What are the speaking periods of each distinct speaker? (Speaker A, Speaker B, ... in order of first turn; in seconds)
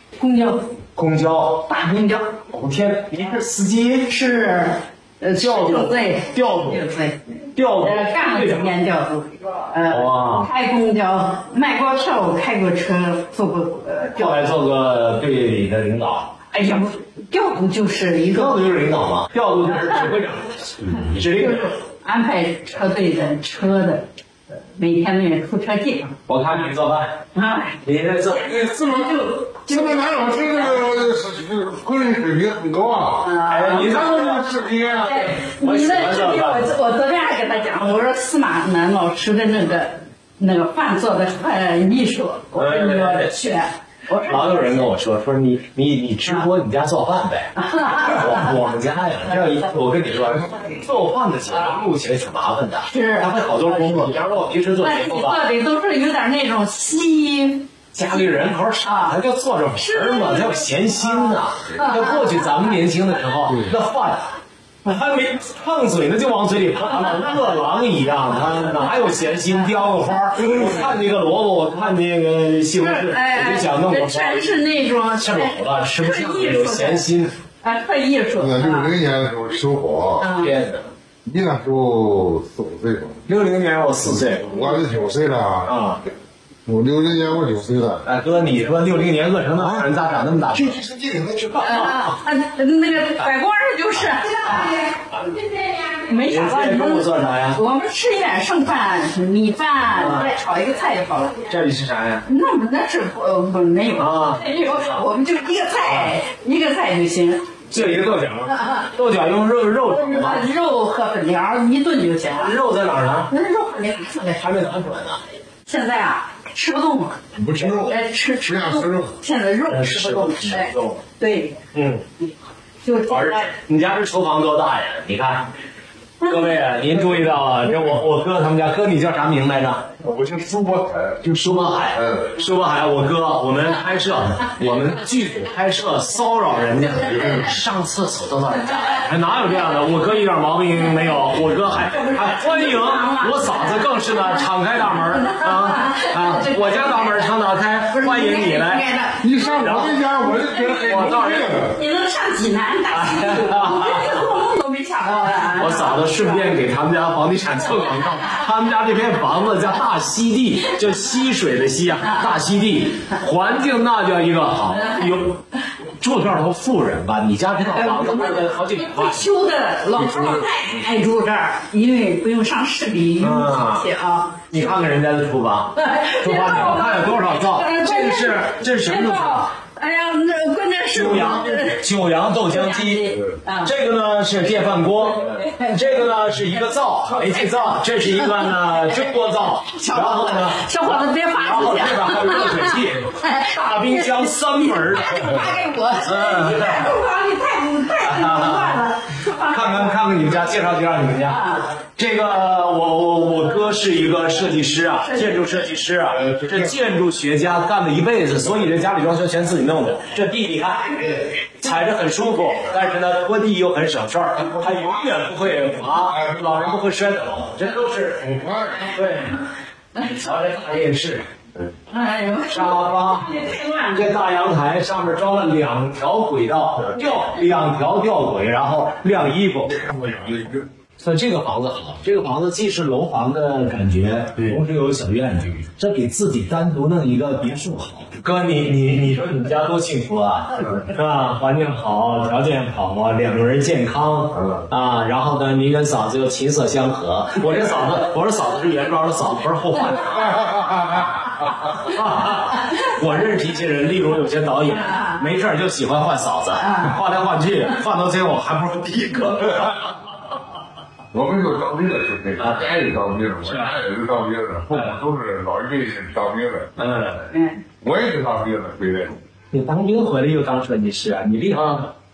Speaker A: 0.2-0.7, 1.7-2.4, 4.1-14.5, 16.5-18.8, 21.2-24.1, 24.7-26.7, 27.3-30.9, 33.2-34.2, 35.0-44.9, 47.6-48.5, 52.9-54.2, 54.8-59.1, 59.7-62.8, 72.8-77.1, 77.6-78.9, 80.2-80.5, 91.6-94.9, 95.9-101.5, 102.2-107.5, 108.5-108.9, 109.8-112.6, 113.3-114.9, 115.6-121.6, 122.8-123.5, 126.2-126.6, 141.8-147.3, 147.9-149.6, 150.3-150.8, 151.5-156.6, 164.7-165.2, 167.6-174.7, 175.7-181.8, 182.5-183.7, 185.2-189.0, 189.6-200.4, 201.2-201.7, 205.0-205.7, 221.9-224.3, 254.9-255.2, 256.6-257.0, 267.3-267.6
Speaker B: 0.9-1.7, 2.5-4.1, 5.4-6.8, 7.5-8.7, 9.9-10.5, 14.1-16.3, 18.3-21.7, 26.3-27.1, 27.8-28.7, 33.4-36.7, 42.5-43.3, 44.1-55.4, 57.9-74.6, 75.1-77.3, 80.3-80.9, 83.3-84.5, 85.6-86.0, 88.0-90.8, 91.5-92.1, 96.2-97.6, 99.9-100.3, 101.5-102.2, 103.9-105.0, 107.7-110.5, 112.2-113.3, 114.4-115.2, 117.5-117.9, 119.7-121.0, 121.7-122.0, 123.1-125.5, 126.2-129.9, 131.3-148.8, 149.5-150.0, 150.7-151.5, 152.9-154.1, 155.1-165.4, 166.0-169.3, 173.2-173.8, 174.5-179.5, 180.9-195.5, 196.0-197.0, 198.0-198.9, 199.4-219.4, 219.9-221.3, 222.5-223.3, 223.9-230.1, 231.0-250.7, 251.6-260.0, 262.4-262.8, 263.4-263.7, 264.7-265.0, 266.8-267.3, 269.5-271.9
Speaker C: 28.5-35.2, 63.5-63.7, 78.4-80.3, 81.2-83.2, 84.2-85.8, 86.7-88.0, 89.5-91.6, 117.3-119.1, 130.0-132.4, 137.1-137.5, 149.2-151.8, 169.9-170.7, 206.1-206.8, 215.9-216.8, 218.2-218.9, 229.8-230.6, 244.3-244.7, 250.1-251.5, 261.1-266.7, 267.8-269.2, 271.5-271.8